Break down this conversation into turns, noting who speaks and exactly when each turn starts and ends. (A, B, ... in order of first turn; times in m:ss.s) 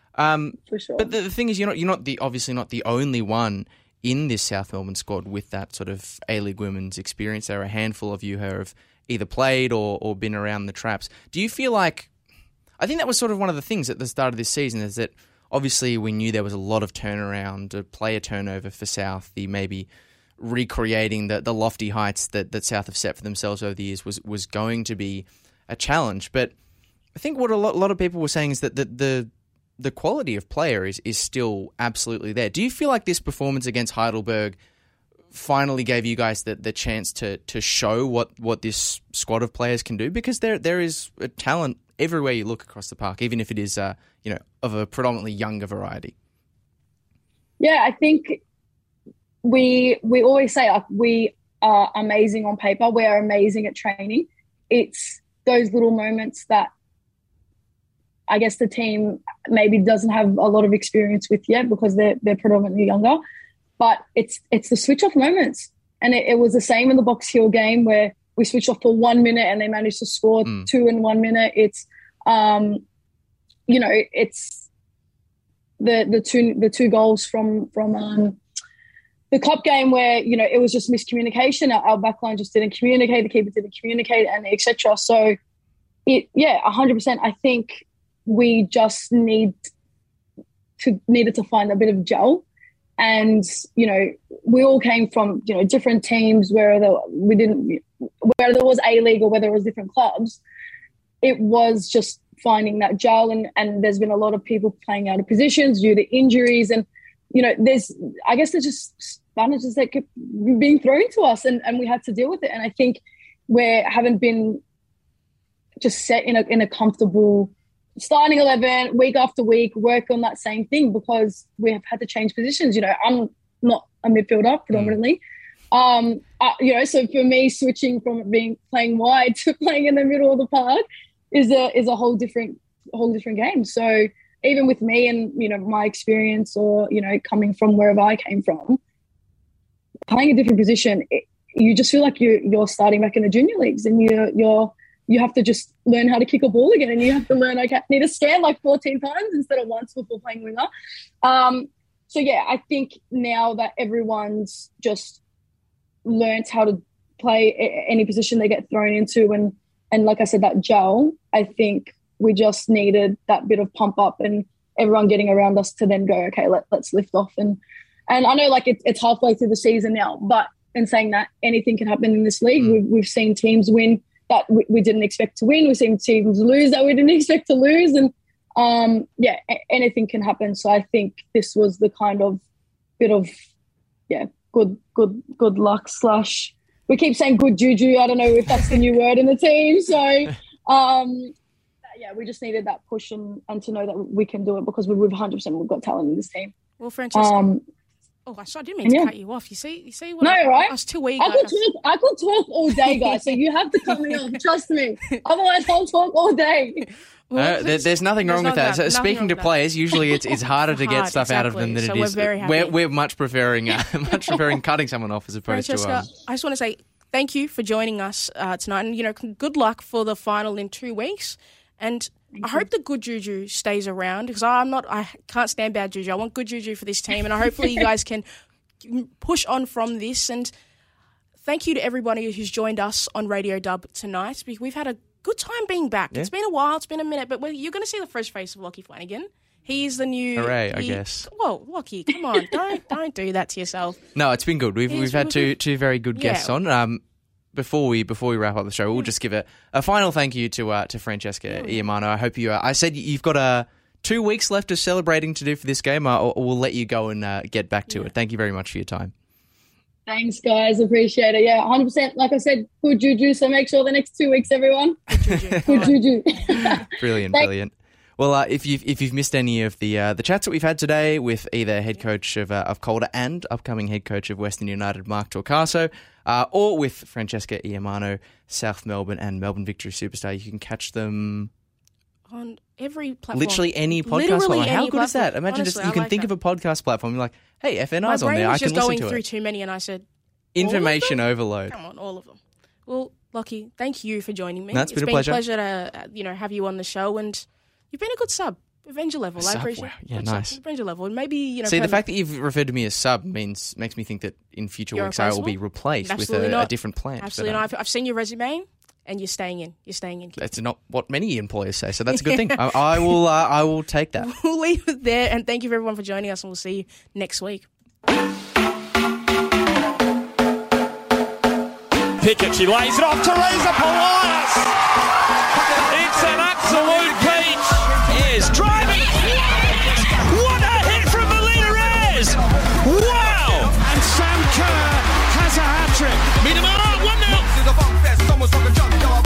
0:00.2-0:12.1 A
0:00.7-0:01.1 B
0:12.8-0:19.9 A
0:20.4-0:26.5 A
0:27.1-0:34.6 A
0:35.3-0:46.1 A
0:47.6-0:48.4 B
0:49.4-0:56.7 B
0:58.3-1:03.2 B
1:03.8-1:12.8 B
1:13.7-1:14.7 B
1:15.8-1:18.4 B
1:19.3-1:25.4 B
1:26.0-1:29.7 B
1:30.8-1:32.4 B
1:33.0-1:40.4 B
1:41.2-1:54.6 B
1:55.8-2:05.2 B
2:05.7-2:18.8 B
2:20.1-2:30.7 B
2:31.2-2:35.2 B
2:36.0-3:02.4 B
3:03.0-3:03.3 B
3:04.1-3:11.3 B
3:11.9-3:16.5 B
3:16.8-3:17.5 C
3:17.1-3:17.6 B
3:18.2-3:21.6 C
3:18.8-3:19.1 B
3:20.2-3:26.9 B
3:22.9-3:23.3 C
3:27.3-3:32.7 C
3:27.3-3:36.1 A
3:35.5-3:48.2 C
3:42.3-3:42.7 B
3:48.8-3:50.5 C
3:51.4-4:04.0 C
4:00.4-4:01.3 A
4:04.1-4:07.0 A
4:04.9-4:05.5 C
4:06.1-4:06.5 C
4:07.5-4:19.1 A
4:11.5-4:11.8 C
4:20.1-4:25.0 B
4:25.1-4:26.8 C
4:25.4-4:25.9 A
4:25.7-4:27.5 B
4:26.5-4:41.5 A
4:42.3-4:46.3 C
4:43.3-4:49.2 A
4:48.0-4:50.0 C
4:50.5-4:51.7 A
4:50.6-5:02.0 C
4:54.7-4:55.4 A
4:59.4-5:00.6 A
5:01.6-5:07.6 A
5:04.9-5:10.4 C
5:10.4-5:14.3 A
5:12.2-5:13.1 C
5:14.2-5:17.7 C
5:22.2-5:24.7 D
5:25.8-5:37.7 D